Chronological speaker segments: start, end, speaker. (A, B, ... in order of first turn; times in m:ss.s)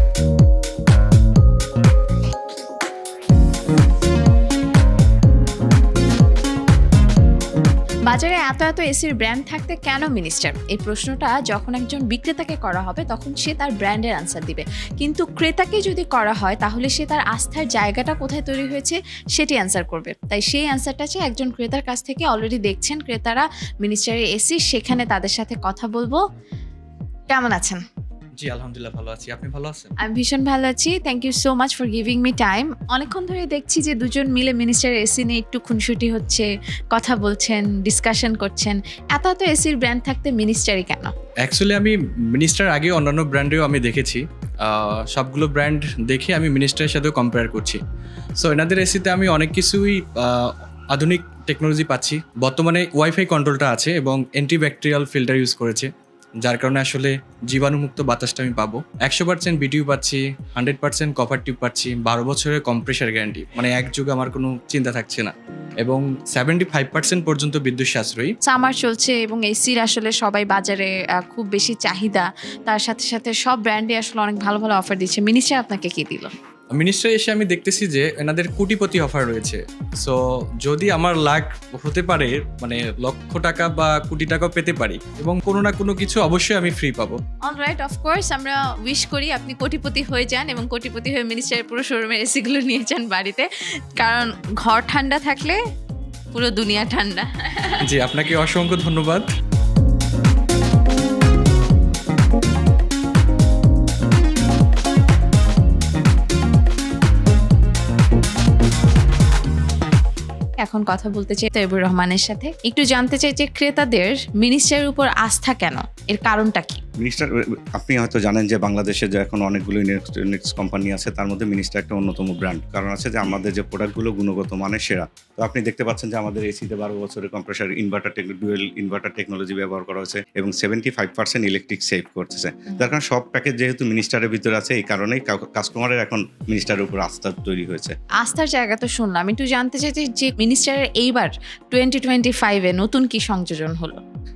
0:08.1-0:26.2 A
0:27.3-0:27.8 A
0:28.4-0:30.0 B
0:30.0-0:41.1 A
0:41.4-0:47.8 B
0:48.4-0:55.9 B
0:56.4-1:08.3 B
1:08.4-1:16.3 A
1:16.7-1:27.2 B
1:27.4-1:35.6 A
1:36.3-1:37.9 A
1:37.8-1:39.3 B
1:50.6-1:56.8 A
1:57.0-2:18.0 C
2:18.2-2:24.0 A